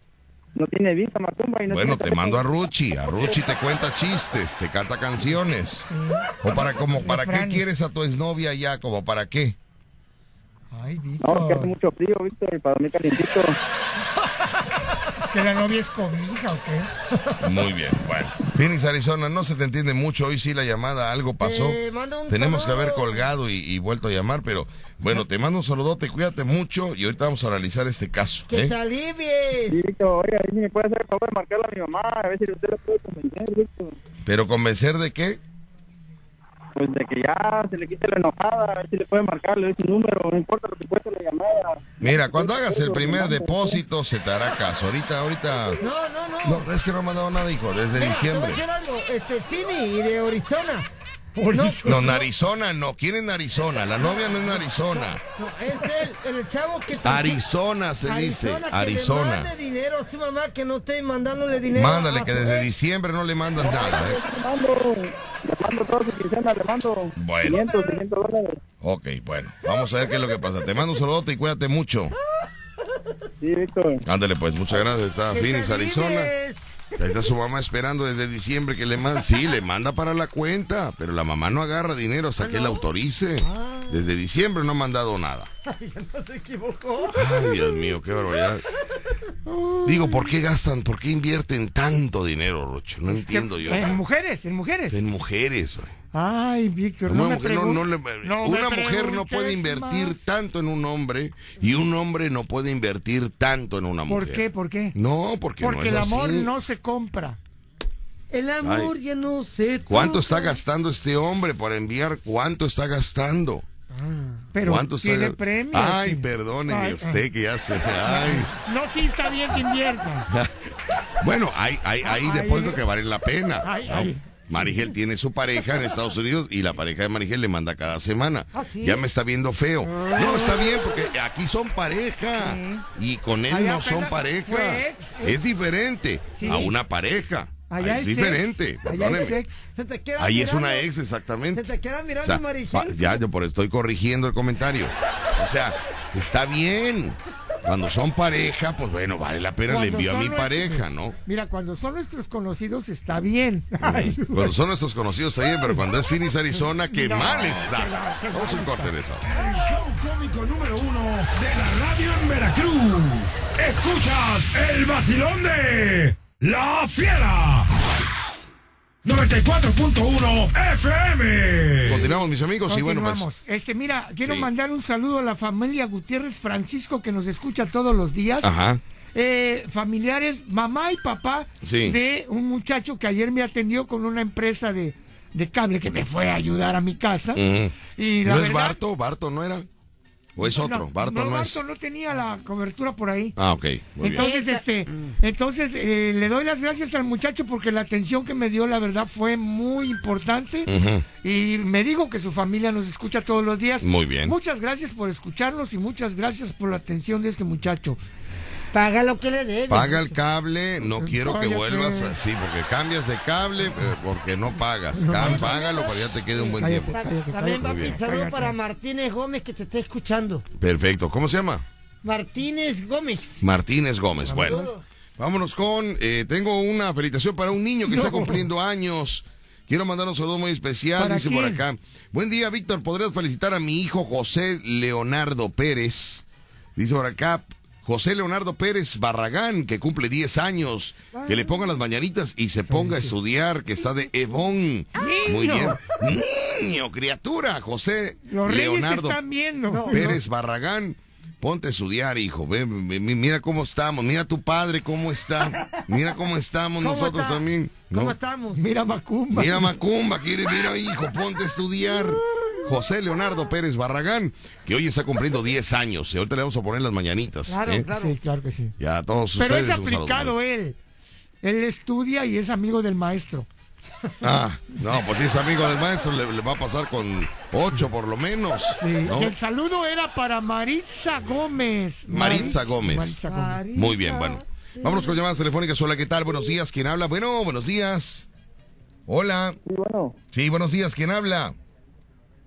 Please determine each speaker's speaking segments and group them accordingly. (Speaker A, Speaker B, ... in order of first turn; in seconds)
Speaker A: 0.6-2.5, 11.2-13.6, 29.7-34.0, 36.8-43.8, 63.6-68.6, 73.4-74.0, 289.6-290.2
Speaker B: 1.7-5.9, 6.4-9.6, 17.4-28.8, 34.3-35.4, 42.0-45.8, 46.4-48.6, 51.8-55.2, 57.0-59.5, 61.7-64.2, 67.2-67.6, 68.8-72.2, 74.0-76.3, 77.0-85.5, 87.1-88.6, 89.8-94.0, 94.9-95.9, 97.1-106.5, 108.6-108.9, 109.9-113.7, 114.6-118.5, 120.3-139.4, 140.2-151.2, 153.8-159.3, 171.8-173.3, 174.2-174.5, 178.4-178.8, 181.6-182.0, 187.3-189.7, 190.4-191.6, 193.4-194.3, 200.7-201.1, 203.8-204.4, 209.7-217.0, 217.6-218.0, 220.6-221.7, 223.4-224.6, 225.2-236.2, 236.8-249.2, 249.9-258.2, 259.3-267.9, 268.8-270.4, 274.2-279.4, 282.1-283.2, 283.7-288.3, 289.1-289.6, 290.3-291.6
Speaker C: 5.9-7.7, 10.7-11.7, 15.2-16.9, 51.4-52.3, 89.5-90.3, 93.1-95.0, 96.1-100.3, 104.1-105.0, 105.6-107.4, 114.5-117.2, 118.0-120.3, 122.0-122.8, 123.6-124.6, 132.4-132.8, 133.5-135.4, 136.4-136.7, 137.7-139.6, 149.7-154.5, 156.6-158.9, 172.7-178.5, 179.2-187.4, 187.9-188.8, 190.4-193.4, 194.0-200.7, 201.2-208.0, 211.0-212.2, 214.9-215.6, 216.6-218.6, 224.3-224.7, 227.9-228.4, 231.0-231.6, 242.7-243.1, 245.0-245.8, 248.3-250.2, 258.6-259.7, 267.9-268.8, 269.4-270.8, 271.4-273.5, 278.7-283.6
Speaker D: 21.4-23.3, 28.5-29.8, 45.8-46.7, 47.9-50.9, 51.5-52.1, 55.0-57.4, 58.0-62.7, 67.5-68.0, 75.3-76.6, 82.4-82.8, 83.4-84.0, 85.7-87.8, 108.3-110.6, 114.0-114.4, 128.5-129.0, 129.8-130.9, 139.8-140.9, 141.5-143.2, 194.1-195.1, 208.7-210.2, 215.1-220.4, 222.0-223.4, 224.3-224.8, 241.2-241.6, 249.7-250.1, 256.8-258.6, 267.5-268.2, 282.2-282.6, 283.2-285.2
Speaker E: 159.2-167.7, 169.0-172.1